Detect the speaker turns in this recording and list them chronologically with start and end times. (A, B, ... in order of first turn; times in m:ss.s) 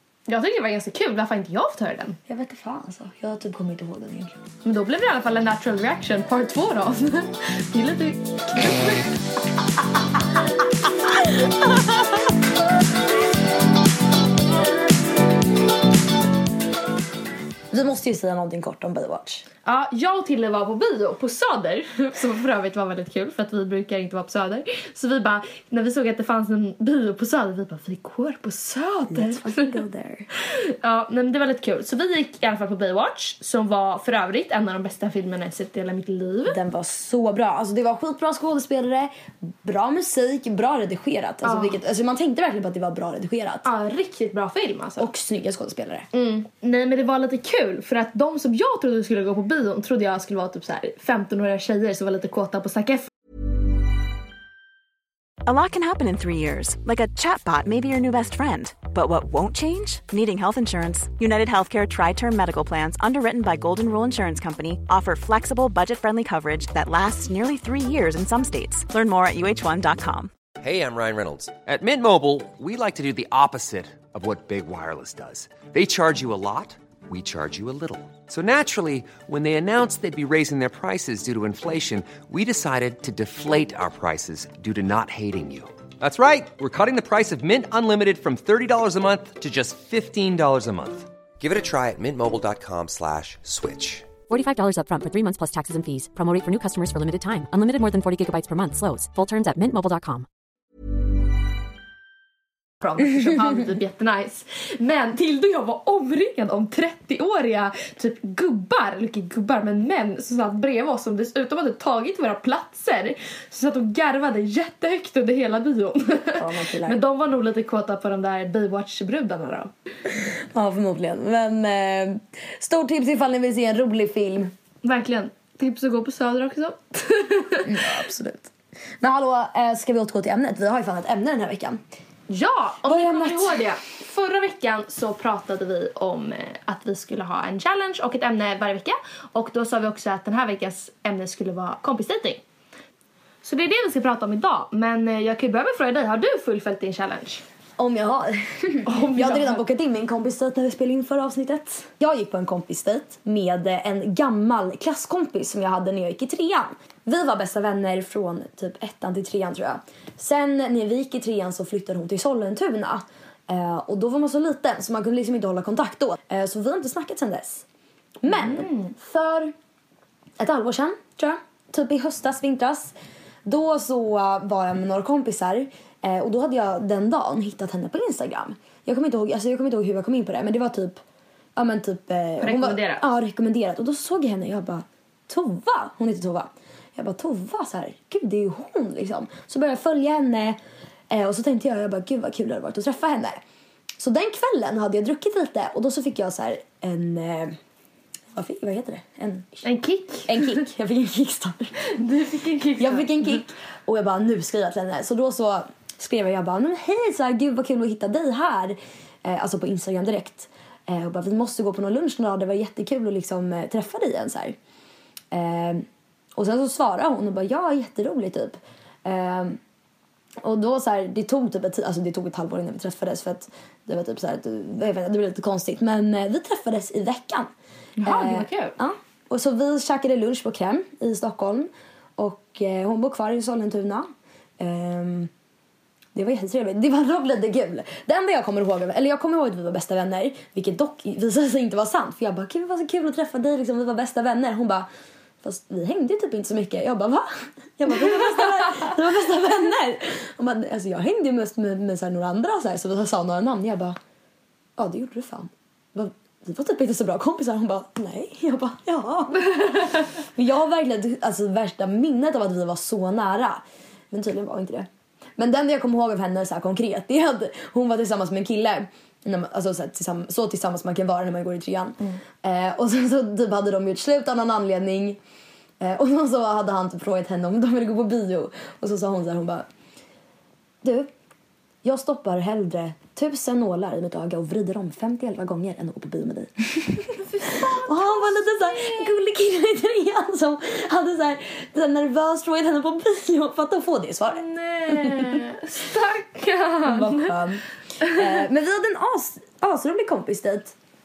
0:00.3-0:02.2 A
0:02.3-0:04.4 B
0:04.6-0:09.0 A
0:17.7-0:19.4 B
0:19.7-0:29.8 A
0:29.1-0:30.3 B
0:30.4-0:36.6 A
0:36.5-0:43.7 B
0:41.4-0:41.8 A
0:43.6-0:45.1 A
0:45.0-0:46.1 B
0:46.1-0:53.1 A
0:55.4-1:10.3 C
1:10.6-1:34.1 D
1:34.3-1:40.3 E
1:42.8-1:59.7 A
1:56.3-1:57.0 B
2:00.2-2:04.5 B
2:04.8-2:07.8 A
2:07.6-2:11.8 B
2:12.3-2:22.4 A
2:12.9-2:13.7 B
2:23.4-2:27.4 A
2:27.8-2:47.6 B
2:28.9-2:29.6 A
2:48.2-2:49.5 B
2:48.3-2:48.9 A
2:50.4-2:52.9 B
2:53.4-3:01.0 B
3:01.6-3:10.6 B
3:02.4-3:03.1 A
3:11.1-3:13.4 B
3:14.0-3:17.6 B
3:18.4-3:19.6 B
3:19.6-3:20.6 A
3:20.3-3:21.8 B
3:21.8-3:23.4 A
3:22.8-3:34.6 B
3:35.3-3:39.6 B
3:40.4-3:47.5 B
3:48.0-3:48.8 A
3:48.0-3:55.3 B
3:56.1-4:04.9 B
4:05.4-4:14.0 B
4:14.8-4:35.2 B
4:35.8-4:39.7 B
4:40.8-4:41.1 B
4:41.8-4:47.1 B
4:47.2-4:49.1 A
4:47.8-4:55.4 B
4:54.3-4:57.4 A
4:56.8-5:00.8 B